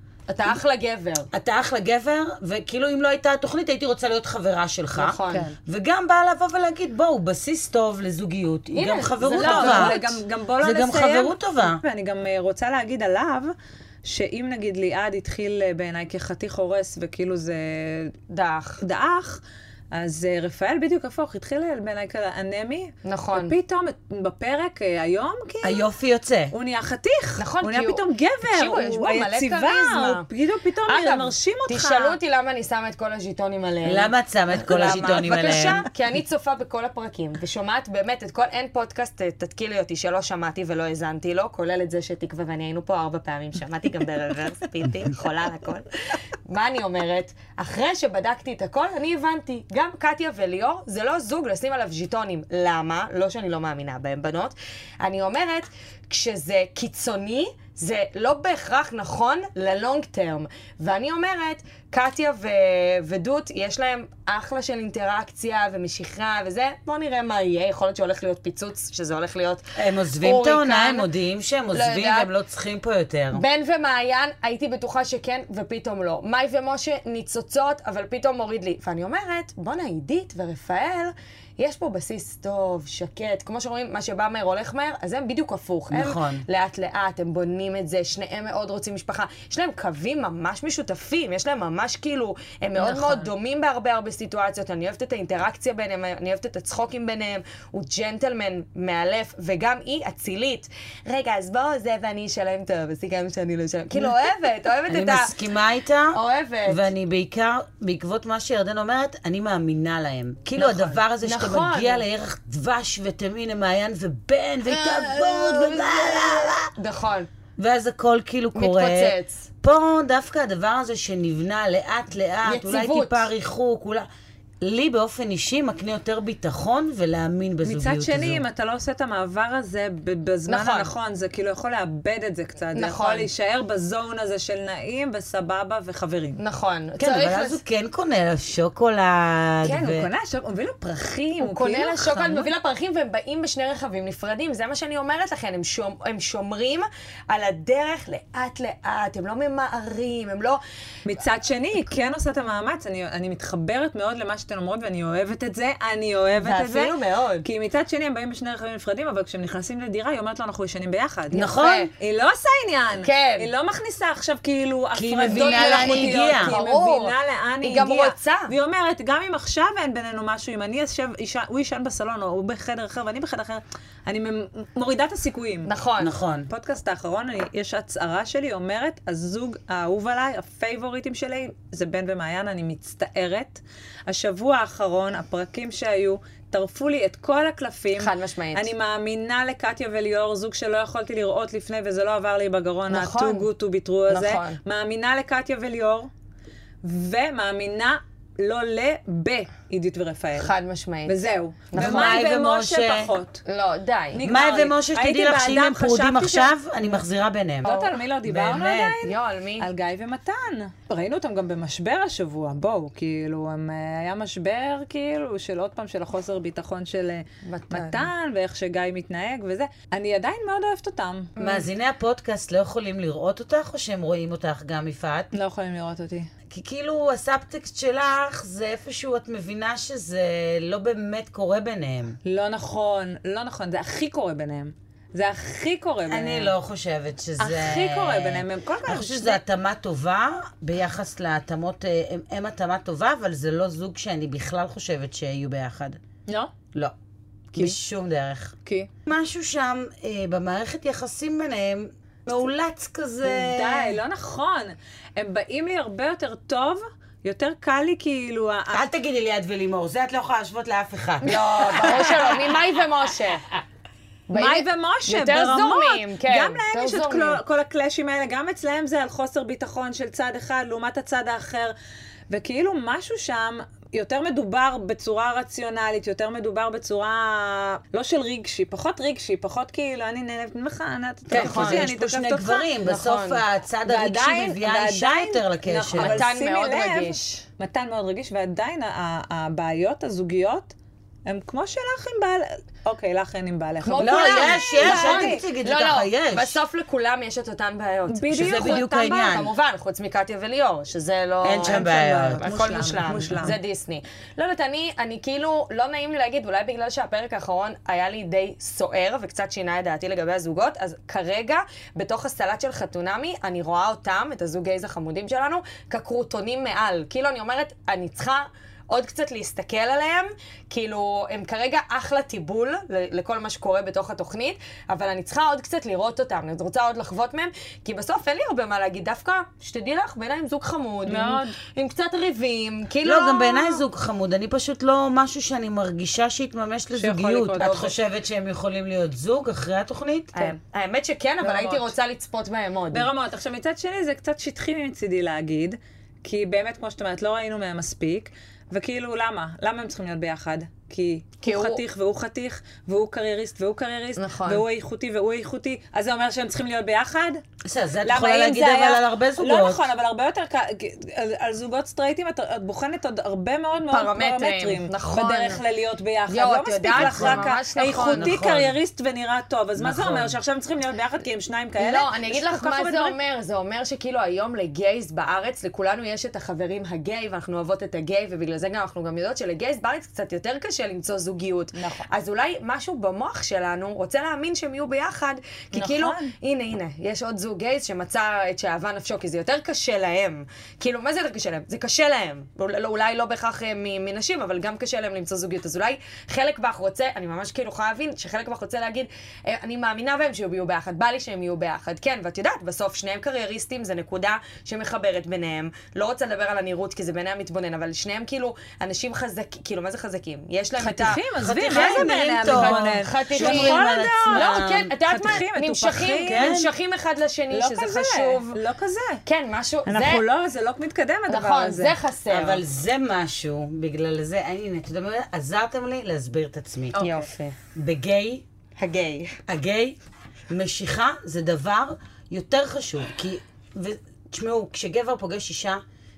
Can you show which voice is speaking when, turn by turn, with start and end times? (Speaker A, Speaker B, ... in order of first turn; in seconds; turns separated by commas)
Speaker A: 0.3-1.3, Speaker B: 1.3-10.0, Speaker A: 5.0-5.5, Speaker C: 5.3-5.6, Speaker A: 8.7-10.2, Speaker C: 9.3-18.1, Speaker B: 10.6-11.8, Speaker A: 18.3-18.8, Speaker C: 18.8-19.4, Speaker C: 19.9-25.8, Speaker A: 23.1-23.5, Speaker B: 25.6-26.5, Speaker C: 26.5-32.2, Speaker A: 27.4-30.3, Speaker A: 30.9-45.9, Speaker B: 33.8-35.9, Speaker A: 46.5-71.1, Speaker B: 69.8-73.4, Speaker A: 71.7-72.3, Speaker A: 73.3-105.3, Speaker B: 85.9-86.4, Speaker C: 92.8-93.3, Speaker B: 104.9-116.7, Speaker A: 106.1-106.9, Speaker A: 110.6-112.0, Speaker C: 110.7-111.0, Speaker A: 114.7-117.3, Speaker B: 117.6-124.1, Speaker A: 118.5-119.5, Speaker A: 122.5-123.2, Speaker B: 124.6-128.4, Speaker C: 127.6-136.4, Speaker A: 130.5-130.9, Speaker A: 132.8-133.3, Speaker A: 136.4-137.6, Speaker B: 137.0-140.1, Speaker C: 139.6-142.5, Speaker A: 141.4-150.6, Speaker C: 151.1-161.4, Speaker A: 156.4-157.5, Speaker A: 161.3-161.9, Speaker B: 161.3-161.9, Speaker C: 162.0-175.7, Speaker A: 163.0-163.5, Speaker B: 164.9-166.6, Speaker A: 165.3-168.5, Speaker A: 175.7-176.1, Speaker B: 176.0-176.5, Speaker C: 176.5-196.1, Speaker A: 188.0-188.7, Speaker A: 192.9-193.5, Speaker A: 194.1-194.6, Speaker C: 196.8-200.5, Speaker A: 200.4-202.2, Speaker C: 201.1-203.4, Speaker B: 201.7-203.1, Speaker A: 203.5-204.2, Speaker C: 204.1-206.6, Speaker B: 204.2-209.0, Speaker C: 207.6-221.3, Speaker A: 207.7-208.0, Speaker A: 209.0-209.7, Speaker A: 217.4-218.1, Speaker A: 221.4-221.7, Speaker B: 221.4-225.3, Speaker C: 225.3-226.3, Speaker B: 226.5-232.2, Speaker C: 232.2-236.5, Speaker B: 236.1-246.0, Speaker C: 237.4-239.4, Speaker C: 246.3-246.5, Speaker B: 247.6-254.0, Speaker C: 248.7-248.9, Speaker C: 253.2-258.8, Speaker B: 258.7-262.6, Speaker A: 261.2-263.5, Speaker A: 264.3-267.4, Speaker C: 264.4-271.8, Speaker C: 272.3-282.7, Speaker B: 281.3-286.3, Speaker A: 281.3-281.9, Speaker A: 282.8-283.4, Speaker C: 283.9-290.7, Speaker A: 285.9-287.4, Speaker C: 291.3-295.5, Speaker A: 293.8-333.8, Speaker B: 294.0-296.6, Speaker C: 298.1-299.4, Speaker B: 298.3-299.5, Speaker B: 301.4-302.5, Speaker C: 301.6-303.6, Speaker C: 331.1-331.6, Speaker B: 333.0-340.6, Speaker C: 337.0-337.9, Speaker A: 337.6-337.9, Speaker A: 340.3-343.1, Speaker C: 341.4-341.9, Speaker C: 342.9-357.4, Speaker A: 351.4-351.8, Speaker A: 354.2-354.6, Speaker B: 357.6-359.9, Speaker C: 358.0-373.2, Speaker A: 363.9-365.6, Speaker A: 366.3-368.4, Speaker B: 366.9-368.8, Speaker B: 369.8-370.4, Speaker A: 371.8-418.6, Speaker C: 381.8-382.0, Speaker C: 385.7-386.3, Speaker C: 410.8-416.6, Speaker B: 411.4-414.9, Speaker B: 416.2-416.7, Speaker C: 417.5-419.2, Speaker A: 419.3-420.2, Speaker C: 419.9-422.0, Speaker A: 421.3-422.6, Speaker B: 422.3-427.1, Speaker A: 427.0-427.6, Speaker B: 427.8-428.4, Speaker A: 428.8-429.4, Speaker B: 429.5-430.0, Speaker B: 430.5-435.8